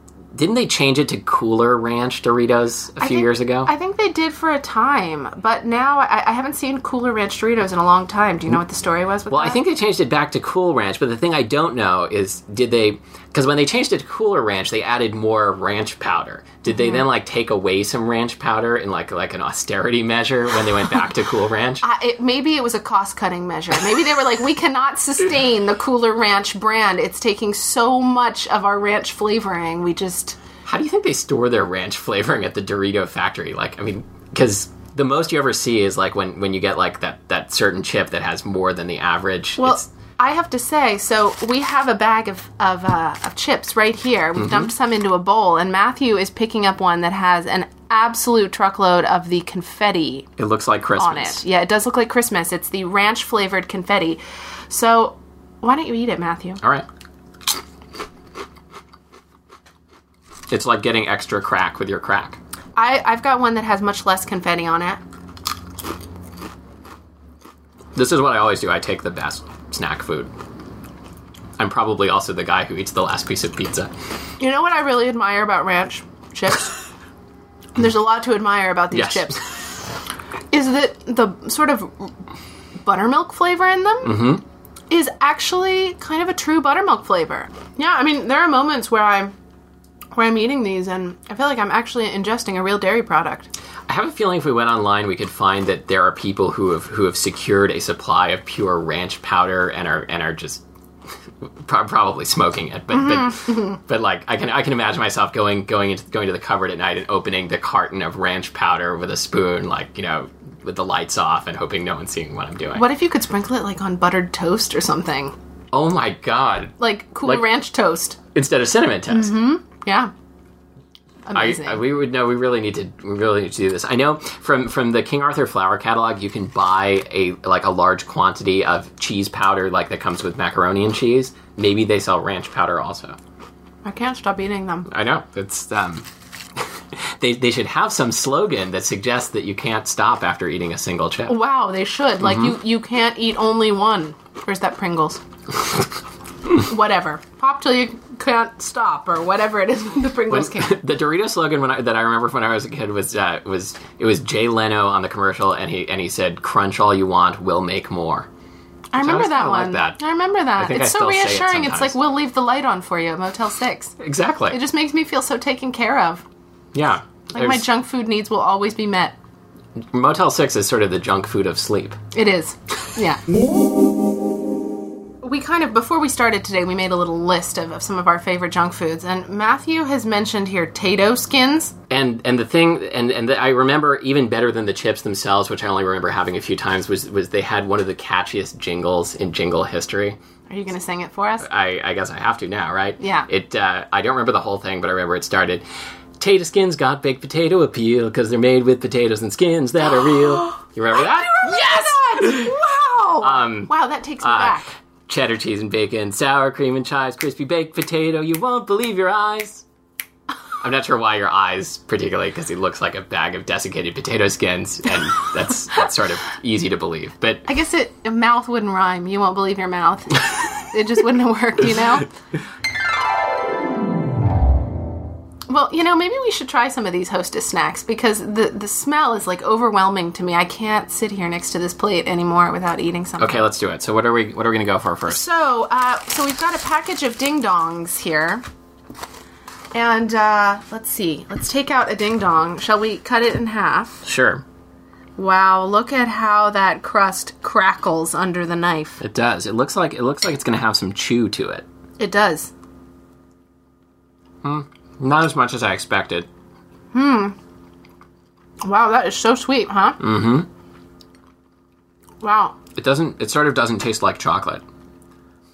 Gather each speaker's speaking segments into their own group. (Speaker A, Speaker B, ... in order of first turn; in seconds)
Speaker A: 0.3-3.7, 9.3-21.8, 30.6-39.8, 44.4-44.7, 50.4-51.4, 60.5-62.4, 68.0-70.3, 71.6-73.9, 78.9-79.4, 84.0-84.4, 93.9-100.6, 101.6-112.9, 115.7-117.5, 118.3-119.4, 121.3-133.2, 134.9-136.1, 137.2-141.3, 142.2-142.6, 150.3-158.3, 159.0-160.0, 160.6-161.9, 164.0-164.6, 166.7-167.6, 169.9-172.0, 181.9-190.2, 191.4-195.6, 196.2-202.6, 203.2-209.6, 210.6-217.4, 233.2-235.2, 244.1-244.4, 249.0-251.7, 254.4-256.3, 260.0-260.5, 262.8-264.6
Speaker B: 3.0-9.6, 16.7-17.0, 21.8-30.4, 39.6-50.3, 51.0-56.6, 62.8-65.0, 74.4-76.8, 77.8-79.4, 80.5-82.1, 82.8-84.3, 84.9-89.3, 90.1-93.5, 102.9-103.8, 112.8-115.3, 116.8-118.2, 119.1-120.1, 121.3-121.8, 133.8-134.9, 141.3-145.2, 146.5-150.8, 158.9-164.0, 164.5-166.2, 167.3-169.2, 172.1-173.2, 175.2-181.8, 190.5-191.5, 193.0-193.3, 200.9-204.7, 217.4-222.1, 225.5-233.4, 235.1-238.4, 239.7-244.1, 245.2-249.0, 252.0-252.5, 256.9-257.4, 258.6-260.0, 262.2-262.6